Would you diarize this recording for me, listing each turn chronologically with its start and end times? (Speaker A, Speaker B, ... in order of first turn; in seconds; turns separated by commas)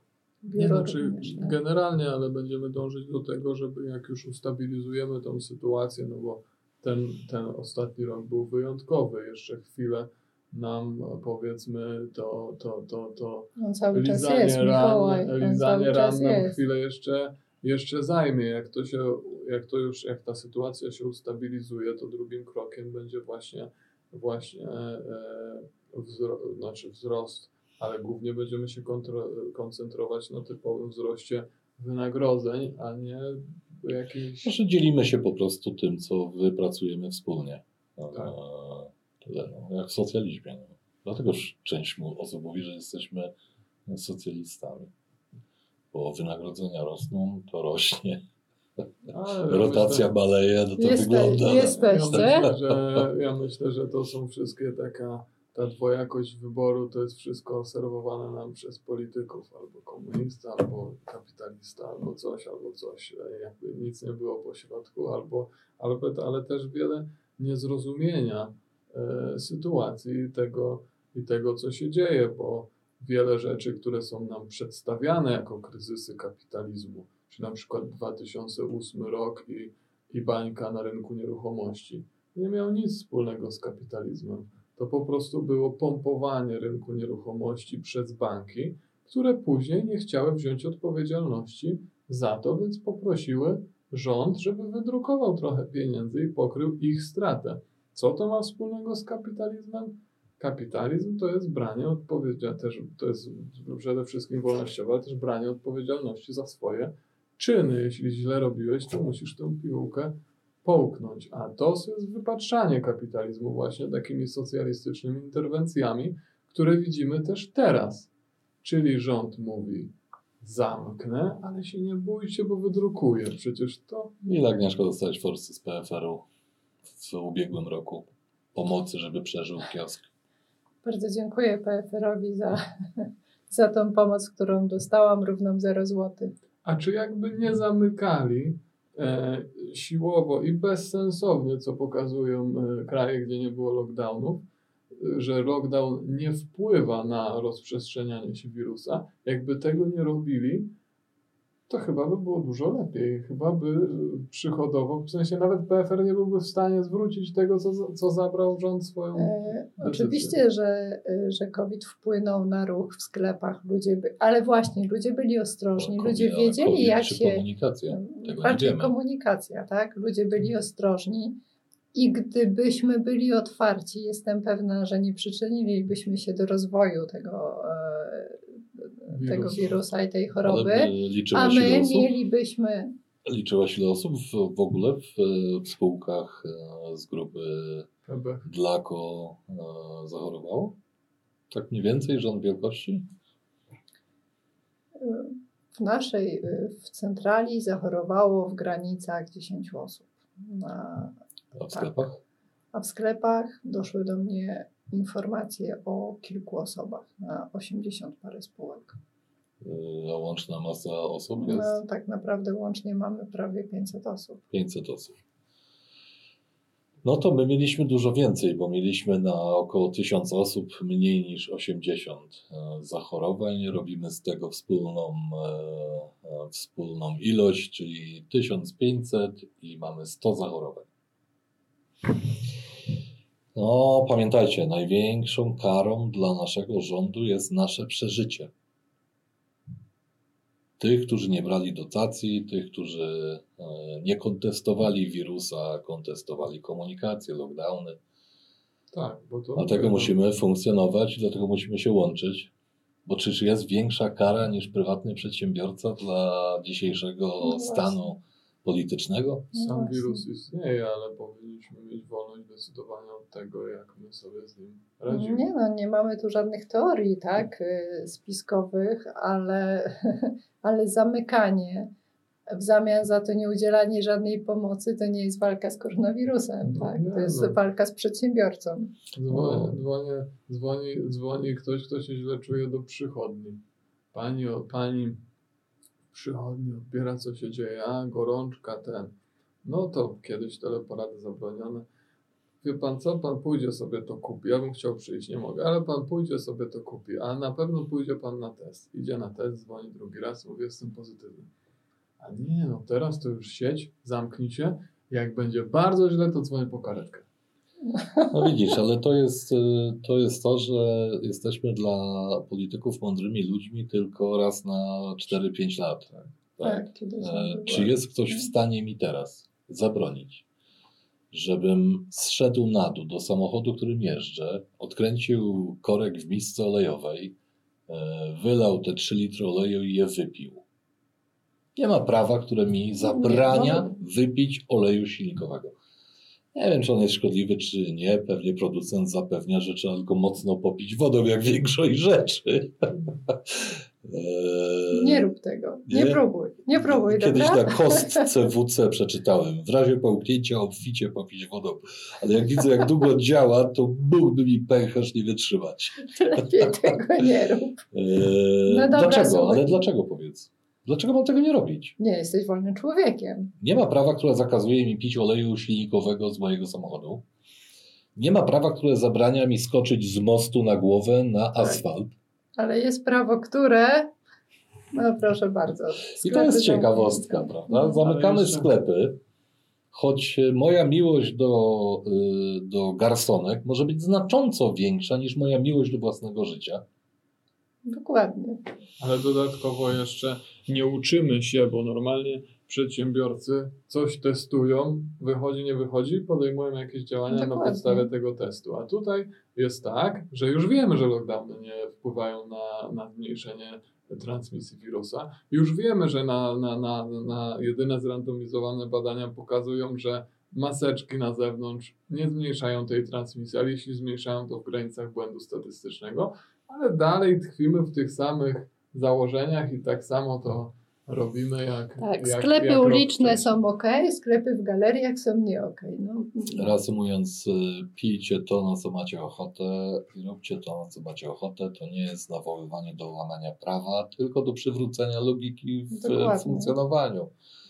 Speaker A: 0.4-1.6, Speaker B: 0.6-34.5, Speaker A: 13.6-16.6, Speaker C: 34.4-43.3, Speaker C: 43.9-44.9, Speaker C: 45.9-48.2, Speaker B: 49.1-50.1, Speaker C: 49.5-52.8, Speaker A: 50.8-52.5, Speaker B: 51.6-118.1, Speaker B: 118.6-124.1, Speaker C: 124.2-126.2, Speaker C: 126.9-130.1, Speaker A: 130.8-136.3, Speaker B: 136.6-150.7, Speaker B: 151.7-160.4, Speaker A: 159.2-171.4, Speaker C: 165.8-168.9, Speaker A: 171.9-182.9, Speaker B: 179.1-179.8, Speaker C: 180.4-182.1, Speaker C: 183.2-187.9, Speaker B: 188.1-188.5, Speaker C: 188.4-190.8, Speaker C: 191.5-193.1, Speaker A: 195.0-201.2, Speaker C: 201.6-202.2, Speaker A: 202.7-209.0, Speaker C: 209.6-211.8, Speaker A: 211.4-214.4, Speaker C: 214.5-215.2, Speaker C: 217.0-230.9, Speaker C: 233.6-238.5, Speaker C: 240.8-248.0, Speaker B: 248.9-250.1, Speaker C: 249.6-252.5, Speaker C: 253.1-259.5, Speaker A: 257.4-258.0, Speaker A: 259.5-260.2, Speaker B: 259.6-265.5, Speaker A: 265.1-271.9, Speaker A: 272.5-278.9, Speaker B: 276.6-277.6, Speaker B: 279.1-283.6, Speaker C: 279.3-279.8, Speaker B: 284.1-285.2, Speaker B: 286.1-291.9, Speaker B: 292.6-301.5, Speaker B: 302.2-307.3, Speaker A: 307.9-308.5, Speaker C: 308.3-316.1, Speaker B: 316.1-316.8, Speaker A: 316.6-318.4, Speaker C: 317.2-320.4, Speaker C: 321.3-327.4, Speaker C: 327.9-330.6, Speaker C: 331.8-335.7, Speaker A: 333.0-333.9, Speaker C: 336.6-345.3, Speaker A: 344.9-348.3, Speaker C: 345.9-346.2, Speaker C: 346.8-356.9, Speaker A: 356.1-357.8, Speaker C: 357.9-362.0, Speaker A: 358.7-359.9, Speaker A: 362.0-363.5, Speaker C: 363.6-367.2, Speaker C: 368.2-372.1, Speaker A: 372.6-374.1, Speaker A: 374.9-378.0, Speaker C: 376.1-379.2, Speaker B: 377.9-378.7, Speaker C: 379.9-386.8, Speaker A: 387.9-388.6, Speaker B: 389.0-423.6, Speaker A: 397.3-398.1, Speaker A: 422.0-426.7, Speaker C: 426.5-437.3, Speaker A: 435.9-436.7